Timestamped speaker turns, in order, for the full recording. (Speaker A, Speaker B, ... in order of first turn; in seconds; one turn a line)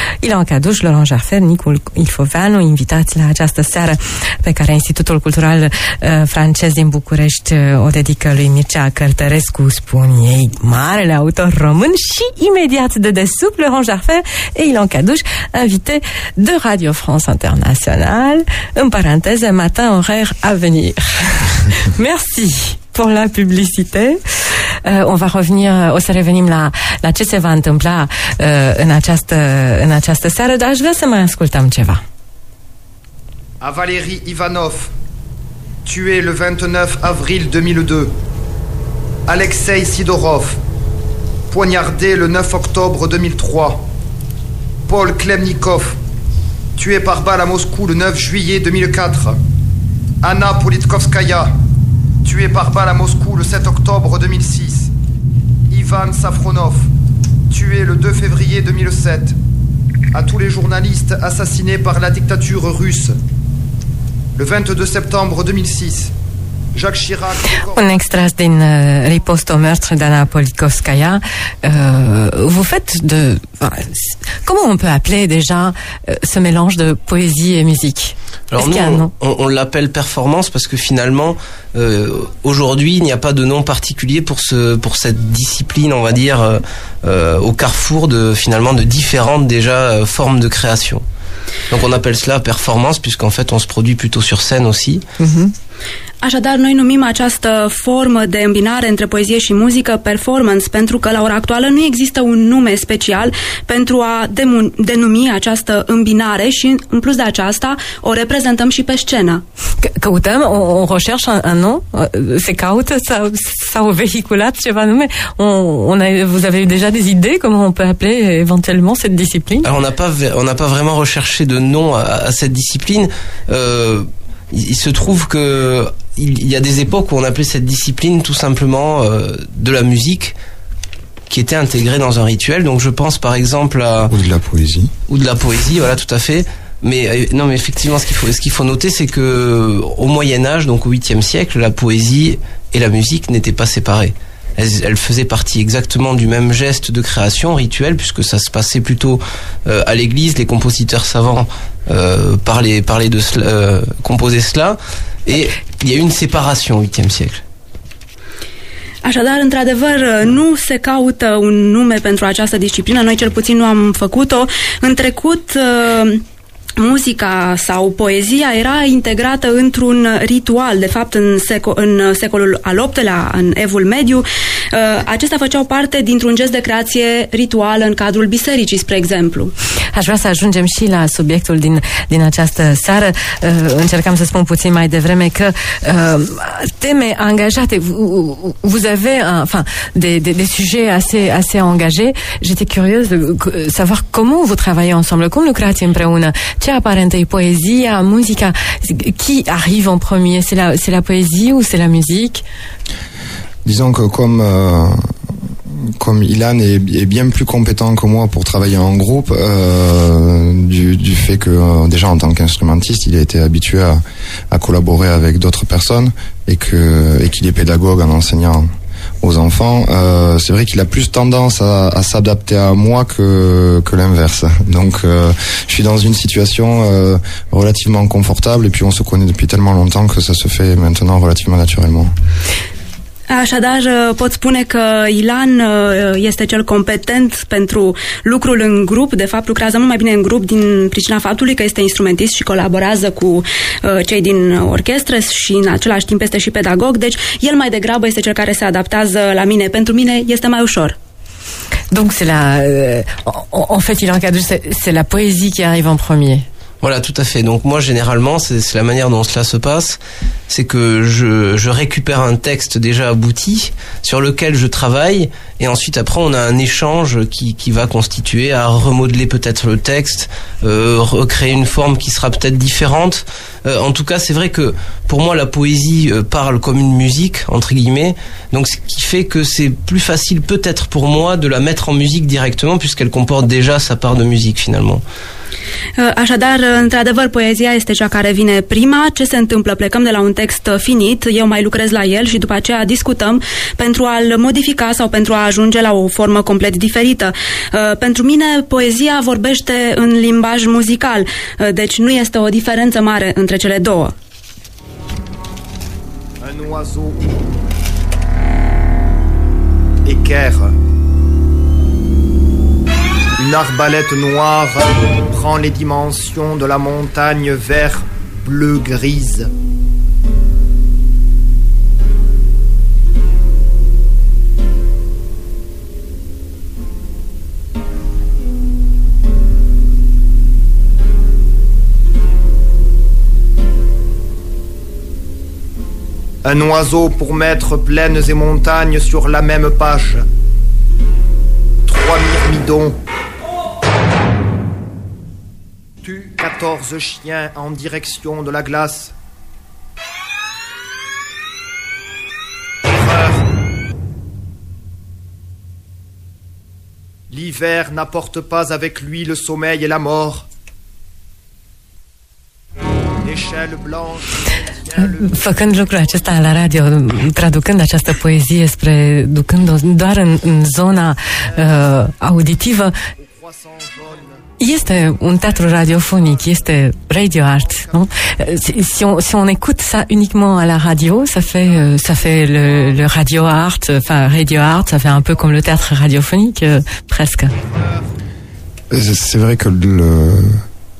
Speaker A: 0.2-32.0
Speaker B: 33.6-34.9
Speaker B: 35.9-38.1
Speaker B: 39.3-40.6
Speaker B: 41.5-43.9
Speaker B: 44.9-46.0
Speaker B: 46.8-49.4
Speaker B: 50.2-51.5
Speaker B: 52.2-54.9
Speaker B: 55.7-56.9
Speaker B: 57.5-59.4
Speaker B: 60.1-63.1
Speaker B: 64.3-66.1
Speaker B: 66.7-67.9
Speaker A: 67.7-79.1
Speaker C: 78.5-91.0
Speaker C: 91.7-95.0
Speaker A: 95.2-95.5
Speaker D: 96.2-109.4
Speaker A: 109.8-119.7
Speaker C: 119.6-130.3
Speaker C: 131.3-134.1
Speaker E: 134.1-134.9
Speaker C: 135.1-157.4
Speaker D: 159.0-166.2
Speaker D: 166.8-179.5
Speaker A: 179.9-202.4
Speaker E: 203.6-205.1
Speaker E: 205.8-218.7
Speaker E: 219.2-232.1
Speaker D: 233.3-250.9
Speaker A: 251.9-256.4
Speaker C: 256.8-285.0
Speaker D: 286.0-304.1
Speaker B: 306.4-307.5
Speaker B: 310.0-310.8
Speaker B: 313.4-319.5
Speaker B: 336.4-340.2
Speaker B: 341.9-343.0
Speaker B: 346.0-349.1
Speaker B: 352.9-353.4
Speaker B: 357.3-360.5
Speaker B: 363.2-365.4
Speaker A: 365.2-372.9
Speaker B: 373.2-374.4
Speaker A: 374.6-387.5
Speaker B: 387.5-388.1
Speaker E: 388.9-390.6